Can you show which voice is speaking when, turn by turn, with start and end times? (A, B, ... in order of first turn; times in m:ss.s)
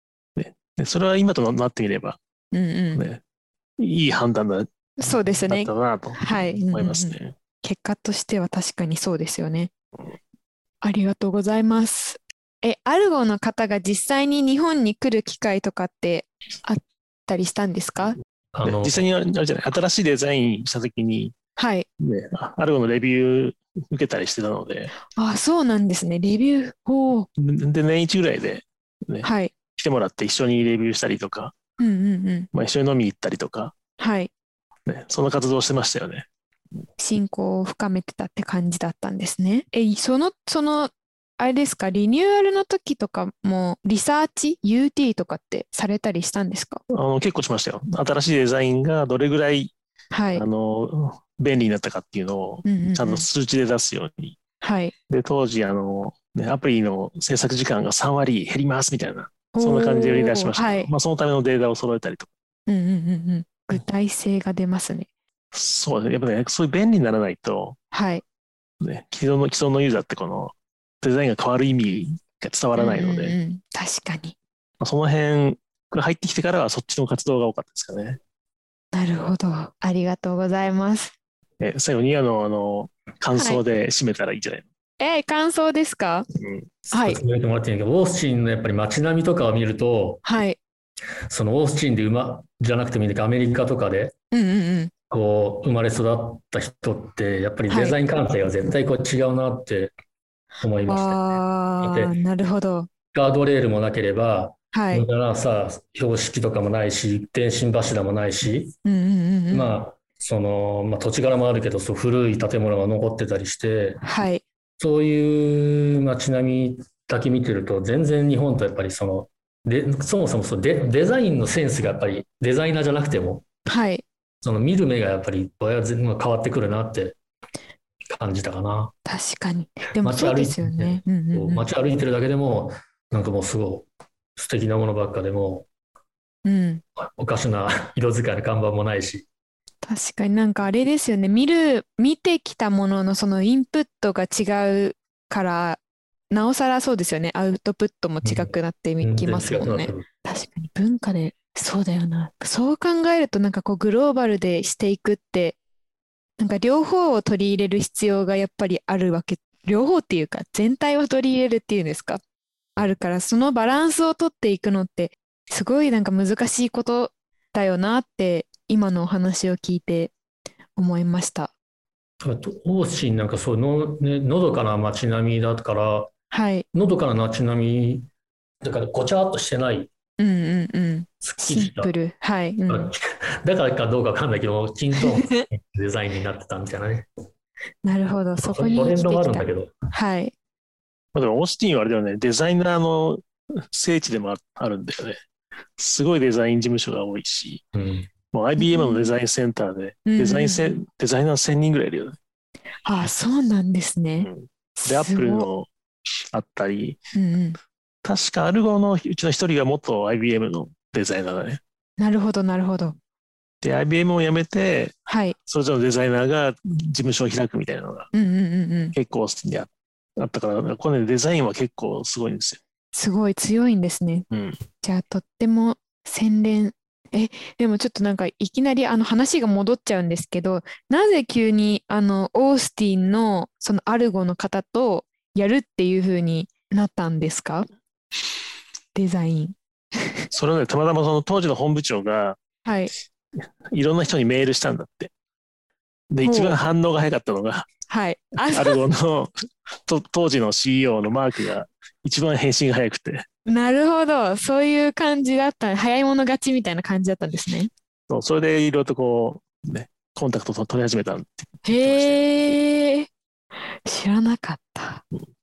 0:00.4-0:02.2 A
0:02.5-0:03.0 B
0:02.9-0:03.2 A
0:03.8-0:07.4 A
0:05.0-0:09.7 B
0:10.8-0:18.2 B
0:18.5-0:19.1 C
0:18.6-0:21.4 A
0:21.6-0:21.9 B
0:22.0-0:24.9 A
0:25.2-0:27.3 B
0:27.4-0:31.5 A
0:29.2-0:29.5 B
0:31.8-0:32.5 B
0:32.5-0:33.8 A
0:34.0-0:34.3 B
0:34.9-0:36.3 A
0:37.0-0:46.8 B
0:46.9-0:49.7 A
0:50.1-0:50.4 B
0:50.3-0:54.4 A
0:52.6-0:53.2 B
0:54.6-0:54.9 B
0:55.1-1:02.3 A
0:59.5-1:00.9 B
1:02.7-1:05.1 B
1:05.5-1:07.8 A
1:07.9-1:08.2 B
1:08.8-1:13.4 A
1:12.8-1:14.4 B
1:14.8-1:18.2 A
1:18.9-1:21.1 B
1:21.6-1:24.6 A
1:23.3-1:23.6 B
1:25.0-1:26.3 B
1:26.4-1:26.7 A
1:26.9-1:30.2 C
1:26.9-1:27.2 B
1:30.2-1:30.6 B
1:31.3-1:34.1 C
1:34.3-1:34.9 B
1:35.1-1:39.9 C
1:37.7-1:38.0 B
1:40.6-1:41.3 C
1:40.9-1:42.9 B
1:41.8-1:42.2 C
1:43.1-1:48.7 C
1:44.7-1:45.1 B
1:48.8-1:49.8 B
1:49.5-1:54.0 C
1:54.0-1:54.4 B
1:54.8-2:03.4 C
2:03.7-2:04.0 B
2:04.4-2:07.2 C
2:08.1-2:08.9 C
2:09.0-2:11.6 B
2:10.0-2:15.7 C
2:16.4-2:16.8 B
2:17.0-2:19.3 C
2:19.8-2:25.8 B
2:26.3-2:35.6 B
2:28.2-2:30.1 C
2:36.4-2:42.2 B
2:42.8-2:50.1 B
2:50.8-2:51.5 B
2:52.2-2:56.1 C
2:56.3-2:56.6 B
2:56.7-2:58.1 C
2:58.6-2:59.9 C
3:00.2-3:02.9 B
3:01.2-3:01.9 C
3:02.7-3:07.1 C
3:05.0-3:05.4 B
3:07.8-3:10.3 B
3:08.4-3:09.8 C
3:11.1-3:15.2 A
3:15.8-3:17.6 A
3:17.7-3:18.1 C
3:18.3-3:22.2 A
3:18.6-3:19.1 B
3:20.1-3:20.8 B
3:22.8-3:25.5 B
3:24.2-3:25.7 A
3:26.3-3:27.0 A
3:27.1-3:27.6 B
3:28.0-3:31.6 A
3:32.0-3:33.0 B
3:33.6-3:34.9 A
3:35.1-3:35.4 B
3:35.5-3:38.1 A
3:38.1-3:38.9 B
3:38.9-3:42.6 A
3:42.9-3:44.3 B
3:44.3-3:44.6 A
3:44.8-3:57.6 B
3:58.9-4:00.3 B
4:00.3-4:02.4 A
4:02.6-4:02.9 B
4:03.7-4:05.1 A
4:06.1-4:07.7 A
4:06.2-4:06.6 B
4:07.9-4:08.8 B
4:08.5-4:13.2 A
4:13.4-4:17.7 B
4:18.1-4:22.2 A
4:21.6-4:23.1 B
4:23.9-4:25.0 B